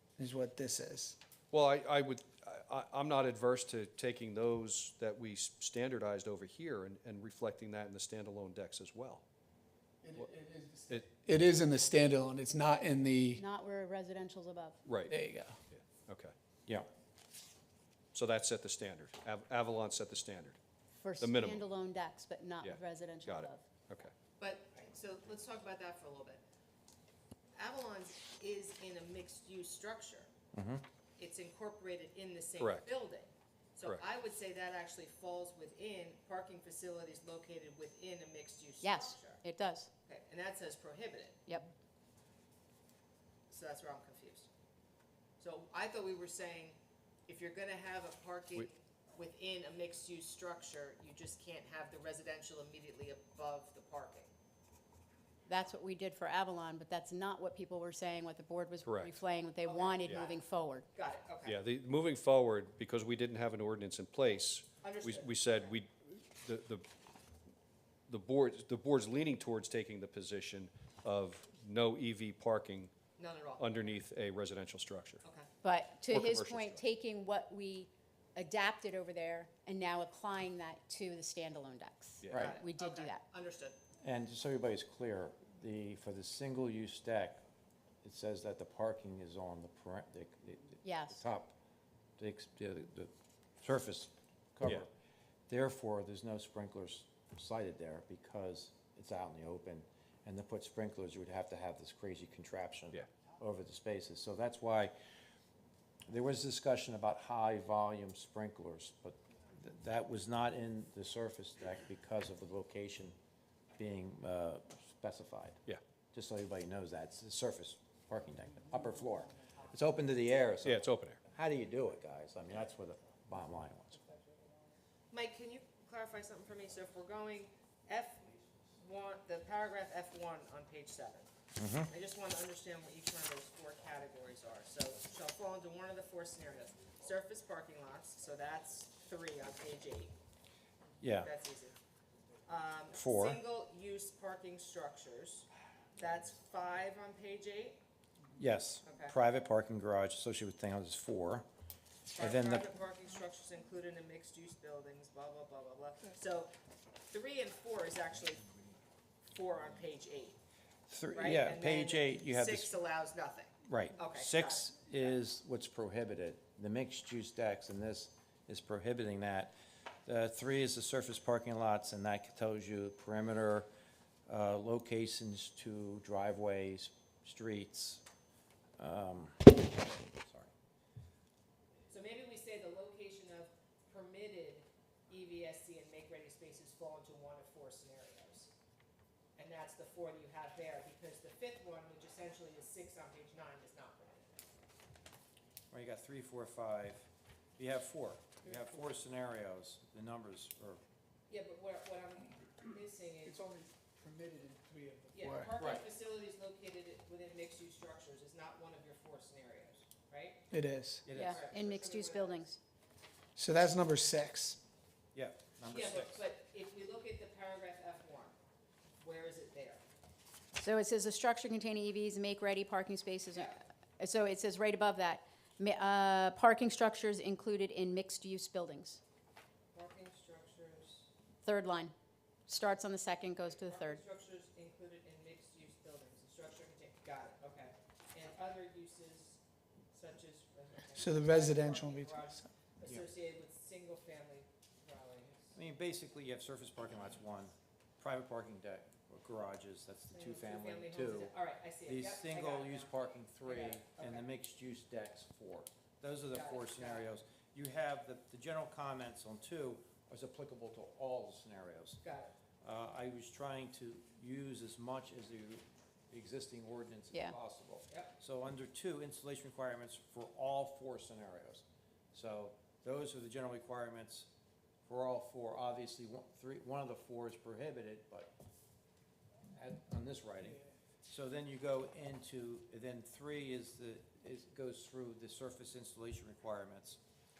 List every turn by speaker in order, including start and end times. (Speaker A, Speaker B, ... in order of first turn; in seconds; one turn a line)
Speaker A: 0.2-1.2
Speaker B: 1.5-9.2
Speaker A: 10.0-13.4
Speaker C: 13.3-14.8
Speaker B: 14.8-15.1
Speaker A: 15.1-15.6
Speaker B: 15.7-16.3
Speaker B: 18.1-20.6
Speaker C: 20.9-23.6
Speaker B: 21.2-21.7
Speaker B: 22.6-24.1
Speaker D: 24.4-26.4
Speaker D: 27.5-30.3
Speaker E: 30.5-30.8
Speaker D: 31.2-39.4
Speaker B: 32.6-32.9
Speaker C: 38.8-39.9
Speaker D: 40.0-41.4
Speaker C: 41.5-41.7
Speaker D: 43.5-44.5
Speaker D: 45.4-54.3
Speaker C: 55.5-60.9
Speaker B: 58.8-59.2
Speaker D: 59.6-61.6
Speaker B: 61.4-66.8
Speaker D: 64.8-65.7
Speaker B: 68.1-72.9
Speaker D: 73.2-73.8
Speaker B: 73.6-75.2
Speaker C: 75.6-83.2
Speaker B: 76.1-76.8
Speaker B: 82.2-82.5
Speaker E: 82.3-82.6
Speaker D: 82.3-83.8
Speaker E: 84.0-87.4
Speaker E: 88.0-91.5
Speaker C: 90.8-91.2
Speaker E: 92.2-93.1
Speaker E: 93.6-94.9
Speaker E: 95.5-104.9
Speaker E: 106.1-113.1
Speaker E: 113.8-115.6
Speaker E: 116.1-124.0
Speaker B: 120.6-121.2
Speaker D: 125.1-131.3
Speaker E: 131.6-131.9
Speaker D: 131.9-140.1
Speaker E: 141.0-141.3
Speaker D: 141.2-141.8
Speaker D: 142.4-147.8
Speaker E: 142.9-143.4
Speaker E: 148.3-151.4
Speaker D: 148.8-149.2
Speaker D: 152.1-156.5
Speaker E: 152.2-152.7
Speaker D: 157.1-158.5
Speaker D: 159.3-160.4
Speaker E: 160.9-162.8
Speaker D: 161.1-164.7
Speaker E: 163.6-169.5
Speaker E: 170.1-173.7
Speaker E: 174.3-178.0
Speaker E: 178.8-180.5
Speaker D: 181.9-188.5
Speaker D: 189.4-194.5
Speaker E: 195.7-200.8
Speaker D: 201.3-203.4
Speaker A: 203.2-205.5
Speaker D: 205.1-210.4
Speaker E: 205.6-205.8
Speaker A: 210.5-211.1
Speaker E: 211.1-211.5
Speaker C: 211.1-212.6
Speaker D: 211.2-212.5
Speaker A: 213.3-214.6
Speaker E: 215.1-216.2
Speaker D: 215.7-218.3
Speaker D: 219.0-219.8
Speaker C: 220.6-229.0
Speaker D: 223.3-223.6
Speaker D: 229.7-231.1
Speaker C: 231.4-231.9
Speaker C: 232.5-234.0
Speaker D: 233.4-239.4
Speaker D: 239.9-245.5
Speaker A: 240.9-242.5
Speaker E: 245.5-251.3
Speaker D: 250.1-254.2
Speaker E: 251.8-262.0
Speaker D: 256.3-257.1
Speaker D: 262.0-262.3
Speaker E: 262.6-274.3
Speaker D: 267.9-268.1
Speaker E: 274.9-278.3
Speaker E: 279.5-287.0